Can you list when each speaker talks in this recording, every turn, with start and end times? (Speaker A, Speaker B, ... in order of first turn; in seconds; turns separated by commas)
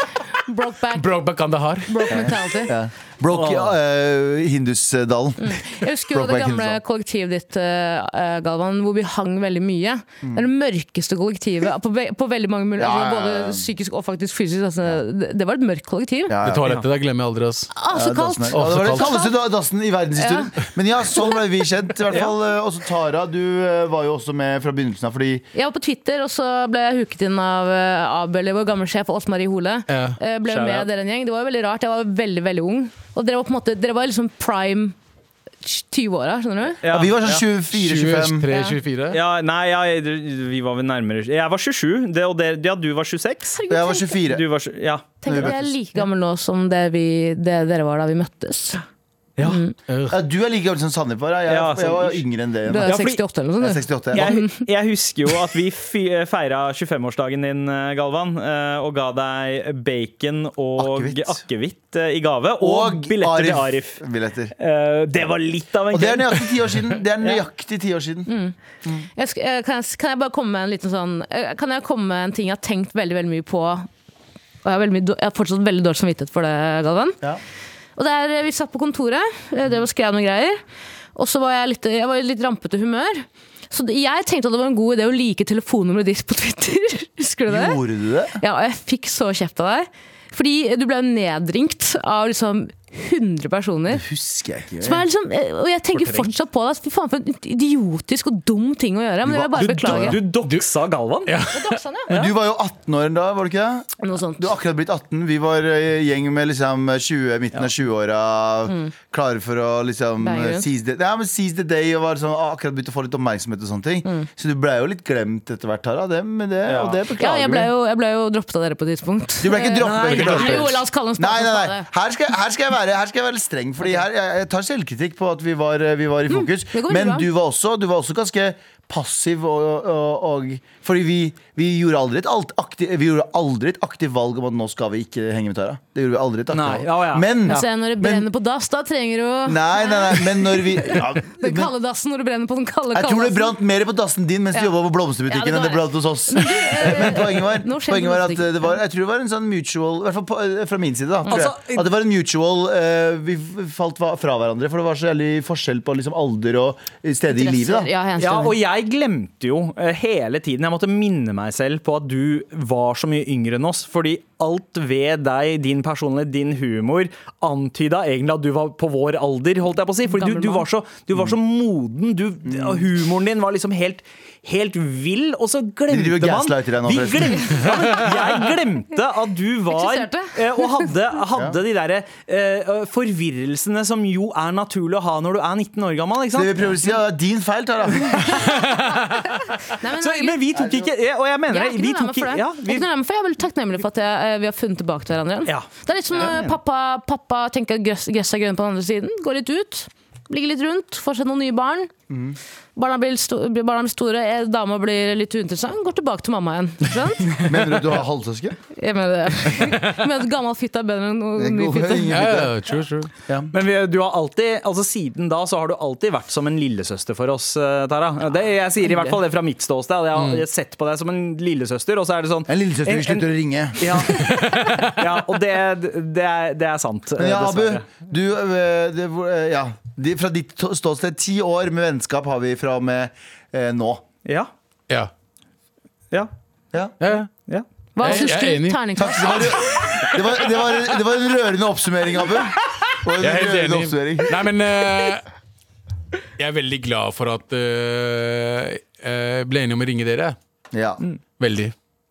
Speaker A: 0.4-1.2, Speaker B: 0.9-2.2, Speaker A: 1.9-2.7, Speaker C: 2.1-6.8, Speaker D: 3.3-3.7, Speaker A: 5.4-16.3, Speaker C: 10.2-10.5, Speaker C: 12.8-13.7, Speaker C: 16.3-16.8, Speaker B: 16.4-17.7, Speaker A: 17.7-19.3, Speaker C: 17.9-25.4, Speaker B: 18.5-19.1, Speaker A: 20.2-20.5, Speaker A: 25.5-34.9, Speaker B: 29.9-30.2, Speaker D: 30.5-30.9, Speaker A: 35.6-36.8, Speaker D: 36.8-37.4, Speaker C: 36.8-38.5, Speaker B: 37.7-39.2, Speaker A: 38.5-38.8, Speaker D: 39.1-43.6, Speaker A: 43.5-44.2, Speaker C: 43.7-44.4, Speaker D: 44.3-45.5, Speaker A: 45.2-48.8, Speaker C: 45.2-45.8, Speaker D: 49.4-49.6, Speaker A: 49.4-49.8, Speaker B: 49.9-50.2, Speaker C: 50.1-52.9, Speaker D: 51.5-52.2, Speaker A: 52.6-54.5, Speaker D: 52.8-53.2, Speaker C: 53.6-54.4, Speaker D: 54.1-64.0, Speaker C: 60.8-61.4, Speaker C: 62.6-64.5, Speaker D: 64.6-67.4, Speaker C: 65.9-68.3, Speaker A: 68.3-68.5, Speaker A: 69.2-73.9, Speaker A: 74.6-77.2, Speaker A: 78.0-80.6, Speaker A: 81.2-87.8, Speaker C: 87.5-88.4, Speaker A: 88.4-94.0, Speaker C: 93.9-95.0, Speaker A: 94.8-100.2, Speaker D: 96.0-96.2, Speaker C: 99.2-100.2, Speaker D: 99.6-101.3, Speaker B: 101.2-101.8, Speaker A: 101.5-102.1, Speaker C: 102.1-117.7, Speaker A: 104.0-104.5, Speaker A: 110.2-110.7, Speaker D: 116.6-117.0, Speaker A: 117.1-121.9, Speaker C: 119.4-138.3, Speaker D: 119.8-120.8, Speaker A: 126.3-127.3, Speaker D: 136.5-137.3, Speaker A: 137.5-143.6, Speaker C: 139.4-141.7, Speaker C: 142.9-157.9, Speaker A: 145.2-148.8, Speaker D: 151.3-151.8, Speaker A: 157.3-158.6, Speaker D: 158.2-186.8, Speaker A: 170.1-170.6, Speaker C: 172.4-172.8, Speaker C: 175.9-177.8, Speaker A: 179.7-180.3, Speaker C: 181.3-181.6, Speaker C: 186.3-188.6, Speaker A: 188.4-190.4, Speaker B: 188.5-189.0, Speaker D: 190.0-192.8, Speaker C: 190.6-190.8, Speaker A: 191.5-201.9, Speaker C: 196.2-196.5, Speaker C: 202.1-202.4, Speaker A: 202.8-207.5, Speaker C: 207.4-208.6, Speaker A: 208.7-212.2, Speaker C: 211.3-212.5, Speaker B: 212.1-213.1, Speaker C: 213.2-213.5, Speaker D: 213.5-227.9, Speaker A: 218.9-219.1, Speaker B: 220.2-220.4, Speaker C: 222.5-224.2, Speaker B: 224.1-225.0, Speaker C: 227.2-234.0, Speaker B: 237.0-237.3, Speaker D: 237.5-238.2, Speaker A: 237.9-239.5, Speaker B: 238.0-240.2, Speaker C: 238.9-244.4, Speaker B: 243.2-245.2, Speaker B: 246.4-250.4, Speaker C: 250.7-251.0, Speaker B: 251.4-251.7